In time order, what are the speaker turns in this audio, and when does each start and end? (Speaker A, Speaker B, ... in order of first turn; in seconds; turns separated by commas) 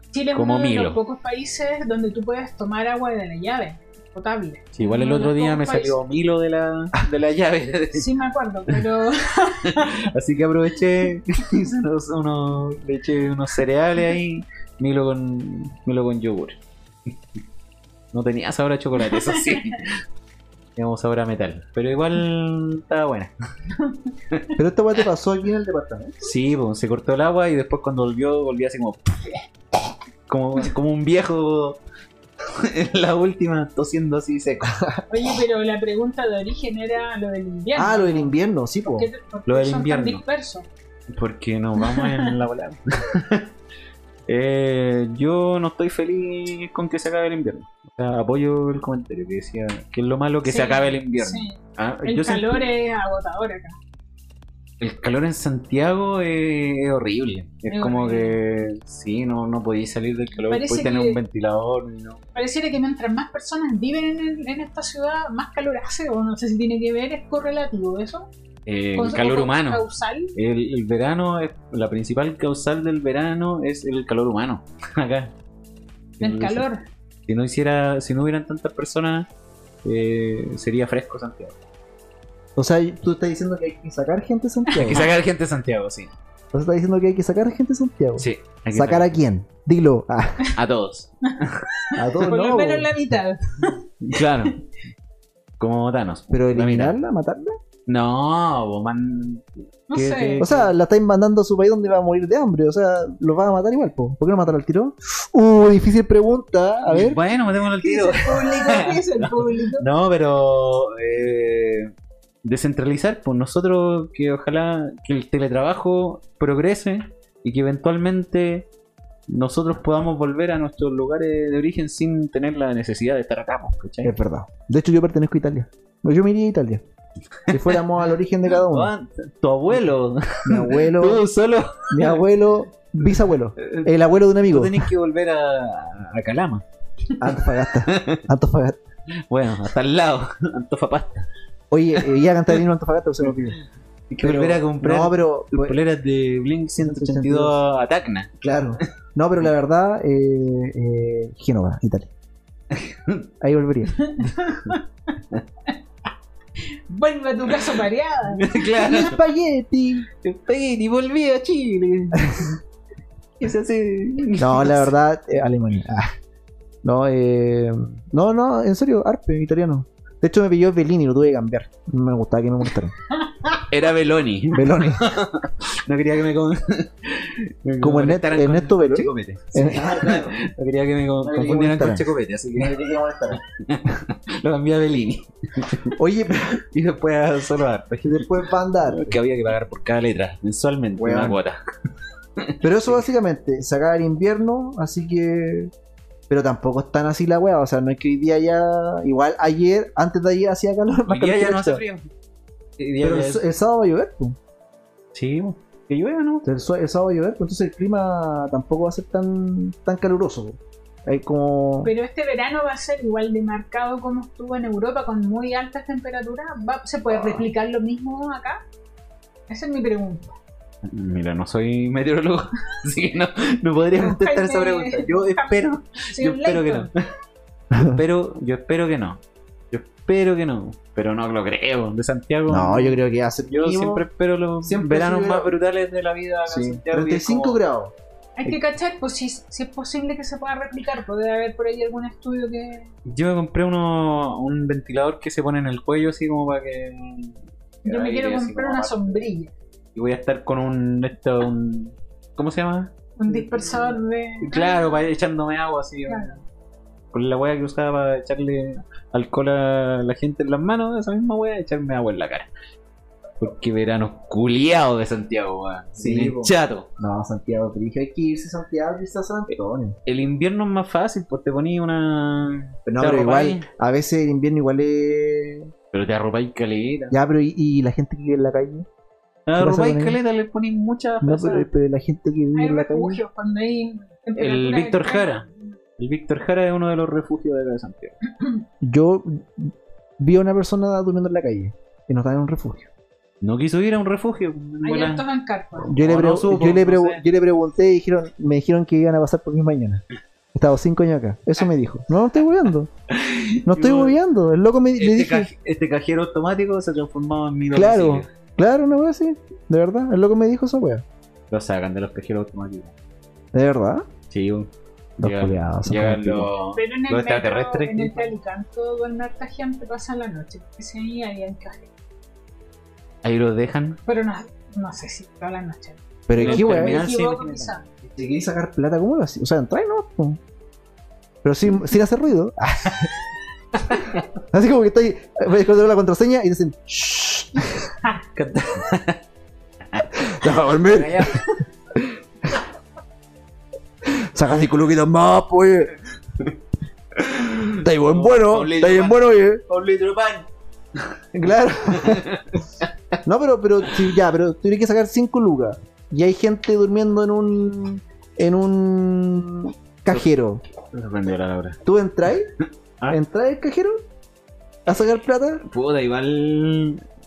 Speaker A: 0.1-6.0, Speaker B: 0.3-1.0, Speaker B: 4.7-8.1, Speaker A: 7.9-10.1, Speaker B: 9.6-16.6, Speaker B: 18.1-20.0, Speaker A: 19.0-19.8, Speaker B: 20.8-23.3, Speaker A: 23.8-24.1, Speaker C: 24.6-26.3, Speaker B: 26.2-29.5, Speaker B: 30.3-31.8, Speaker B: 32.5-34.8, Speaker A: 35.1-38.3, Speaker C: 37.8-39.1, Speaker A: 38.9-40.7, Speaker B: 39.5-40.2, Speaker B: 41.1-43.5, Speaker A: 41.8-42.3, Speaker B: 44.3-52.7, Speaker A: 50.5-53.8, Speaker B: 54.8-62.2, Speaker A: 57.7-58.4, Speaker A: 60.5-61.2, Speaker A: 62.4-68.3, Speaker B: 68.7-69.8, Speaker A: 69.0-70.3, Speaker B: 70.4-75.3, Speaker B: 76.2-76.7, Speaker A: 76.2-76.8, Speaker B: 77.3-79.3, Speaker B: 79.8-81.6, Speaker C: 82.6-85.1, Speaker B: 84.7-86.1, Speaker A: 84.8-85.1, Speaker C: 86.5-90.5, Speaker B: 88.2-89.2, Speaker B: 90.5-91.6, Speaker A: 91.9-94.2, Speaker C: 92.0-93.0, Speaker B: 94.0-94.6, Speaker B: 95.6-97.0, Speaker C: 96.3-97.5, Speaker B: 97.9-100.7, Speaker A: 99.9-100.5, Speaker C: 100.4-107.2, Speaker B: 106.9-111.9, Speaker A: 107.8-109.9, Speaker B: 112.4-118.7, Speaker B: 119.3-124.1, Speaker C: 124.0-126.8, Speaker B: 127.5-127.8, Speaker C: 127.5-128.9, Speaker B: 128.6-132.2, Speaker C: 130.4-131.2, Speaker C: 131.9-134.9, Speaker B: 133.6-136.6, Speaker C: 137.2-138.8, Speaker B: 137.8-138.2, Speaker B: 139.3-141.3, Speaker C: 141.7-143.6, Speaker B: 144.1-148.3, Speaker C: 144.2-145.8, Speaker C: 146.8-147.6, Speaker C: 148.4-152.1, Speaker B: 152.7-153.2, Speaker C: 153.4-154.1, Speaker A: 154.1-154.8, Speaker A: 156.9-158.7, Speaker B: 158.4-159.2, Speaker C: 158.8-160.1, Speaker B: 160.2-162.6, Speaker B: 163.4-164.9, Speaker C: 164.4-166.1, Speaker C: 166.8-172.9, Speaker A: 173.3-173.6, Speaker B: 173.5-182.8, Speaker C: 174.5-175.1, Speaker C: 177.8-180.4, Speaker C: 181.2-183.4, Speaker B: 183.3-186.0, Speaker C: 185.9-186.6, Speaker B: 186.7-191.6, Speaker C: 188.1-189.2, Speaker C: 191.0-191.4, Speaker B: 192.4-193.0, Speaker C: 192.6-195.7, Speaker C: 196.3-201.8, Speaker B: 201.1-202.1, Speaker B: 202.8-203.4, Speaker C: 203.0-204.4, Speaker B: 205.1-206.5, Speaker C: 206.4-211.9, Speaker A: 211.8-218.6, Speaker A: 219.5-220.4, Speaker B: 220.8-226.9, Speaker A: 223.9-226.9, Speaker C: 227.7-228.0, Speaker B: 227.8-229.2, Speaker B: 229.7-233.0, Speaker C: 232.5-234.1, Speaker B: 233.5-237.6, Speaker C: 234.6-235.5, Speaker C: 236.5-237.9, Speaker A: 238.4-242.9, Speaker B: 243.1-249.3, Speaker A: 247.9-249.5, Speaker B: 249.9-256.4, Speaker A: 253.2-255.1, Speaker A: 256.1-256.4, Speaker B: 257.1-262.5, Speaker B: 263.4-266.9, Speaker C: 266.0-270.0, Speaker B: 270.1-273.6, Speaker C: 272.9-275.7, Speaker B: 275.9-277.2, Speaker C: 277.1-278.9, Speaker B: 279.5-281.7, Speaker C: 279.6-280.2, Speaker C: 281.2-283.2, Speaker A: 282.5-285.7, Speaker B: 284.4-285.4, Speaker B: 286.0-288.2, Speaker C: 288.8-292.9, Speaker B: 293.4-295.2, Speaker A: 294.8-295.9, Speaker B: 295.8-297.2, Speaker C: 295.9-302.9, Speaker B: 303.1-304.2, Speaker C: 303.7-305.5, Speaker B: 305.0-308.3, Speaker C: 307.7-311.0, Speaker B: 311.5-312.9, Speaker C: 313.5-314.1, Speaker B: 314.3-318.3, Speaker C: 315.2-316.5, Speaker A: 316.7-321.9, Speaker B: 323.2-324.0, Speaker A: 324.1-327.8, Speaker C: 326.3-327.0, Speaker B: 326.3-327.8, Speaker C: 328.1-330.4, Speaker C: 331.4-333.1, Speaker B: 333.8-334.2, Speaker C: 334.5-338.0, Speaker B: 338.4-339.2, Speaker B: 339.9-341.5, Speaker C: 340.0-341.4, Speaker C: 341.9-342.6, Speaker C: 344.1-345.9, Speaker B: 347.1-350.5, Speaker C: 347.8-349.6, Speaker C: 351.3-352.3, Speaker B: 351.9-352.9, Speaker C: 353.2-360.6, Speaker B: 360.9-361.8, Speaker C: 361.9-362.5, Speaker C: 363.1-364.0, Speaker C: 364.9-365.6, Speaker B: 365.7-367.0